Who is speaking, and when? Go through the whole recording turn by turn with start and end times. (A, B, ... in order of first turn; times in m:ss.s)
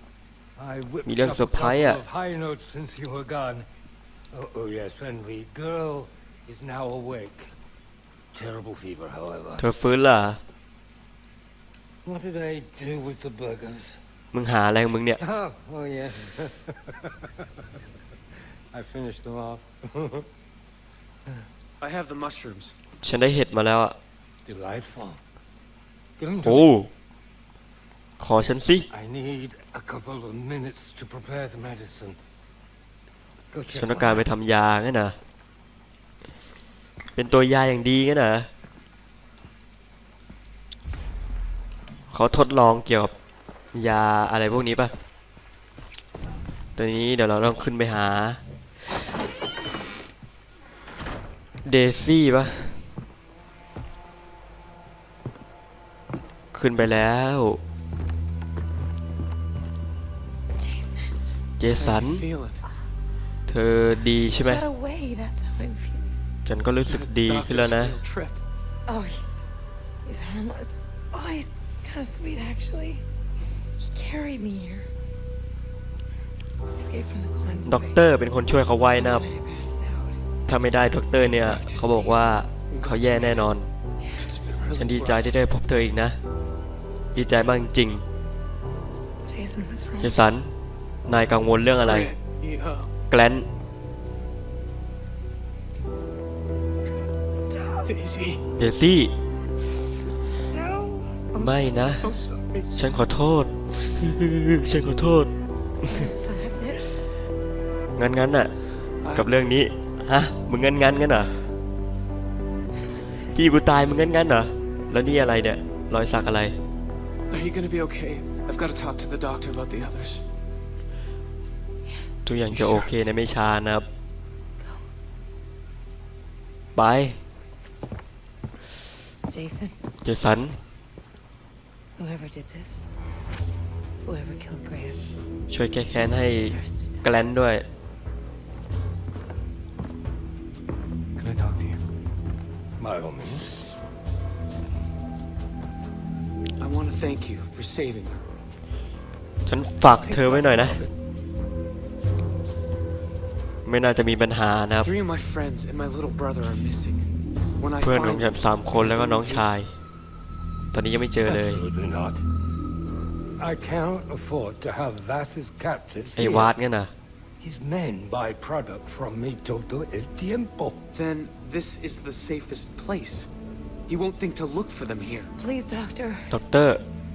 0:00.6-0:03.7 A
0:01.1-0:02.0 B
0:04.3-0:07.5 A
0:08.3-0:09.6 A
0:09.6-0:10.4 B
0:12.0-0:14.0 A
0:14.3-0:15.2 B
0:15.2-0:17.8 A
0:18.7-0:20.3 A
0:21.8-0:22.8 C
0:23.0-0:24.0 B
0:24.4-0:25.2 A
0:26.2-0:26.7 A
0:26.4-0:26.9 B
0:28.2-0:28.9 B
0:28.9-0:32.2 A
0:33.5-0:34.3 A
0:33.7-0:35.2 B
0:37.2-0:38.5 B
0:42.1-0:43.1 B
0:43.7-0:44.9 B
0:46.8-0:48.4 B
0:51.6-0:52.8 B
0:56.5-0:57.6 B
1:01.6-1:02.2 B
1:01.8-1:02.6 C
1:03.5-1:04.6 B
1:04.6-1:06.0 D
1:06.5-1:08.0 B
1:06.9-1:08.4 C
1:10.1-1:13.0 D
1:13.9-1:14.8 D
1:16.8-1:17.7 D
1:17.6-1:19.3 B
1:19.0-1:20.0 D
1:20.5-1:23.7 B
1:21.2-1:22.1 C
1:22.7-1:23.5 C
1:24.2-1:25.3 C
1:24.8-1:26.2 B
1:27.1-1:28.0 B
1:29.3-1:30.1 D
1:30.0-1:30.5 B
1:31.1-1:32.1 B
1:31.8-1:32.9 C
1:33.1-1:33.5 B
1:37.8-1:38.4 C
1:38.6-1:39.1 B
1:41.3-1:42.1 B
1:41.3-1:42.7 C
1:42.7-1:45.3 B
1:45.8-1:46.1 B
1:48.0-1:48.5 B
1:49.0-1:49.3 C
1:49.1-1:51.3 B
1:53.0-1:53.3 D
1:53.4-1:56.5 B
1:57.3-2:00.2 C
2:02.3-2:03.9 B
2:02.5-2:02.9 C
2:06.8-2:07.2 B
2:10.0-2:10.6 B
2:12.0-2:12.8 D
2:14.1-2:15.0 D
2:15.5-2:17.6 B
2:21.2-2:21.8 C
2:22.8-2:23.6 A
2:26.6-2:28.2 C
2:29.5-2:30.8 B
2:29.9-2:30.4 C
2:30.2-2:30.9 A
2:33.7-2:34.9 B
2:34.8-2:37.1 C
2:37.6-2:39.5 C
2:37.8-2:39.7 B
2:40.7-2:41.6 B
2:41.2-2:42.2 A
2:43.4-2:46.5 A
2:46.2-2:46.9 B
2:47.4-2:50.8 A
2:50.9-2:53.3 C
2:53.9-2:55.3 C
2:55.4-2:56.3 D
2:56.3-2:56.8 B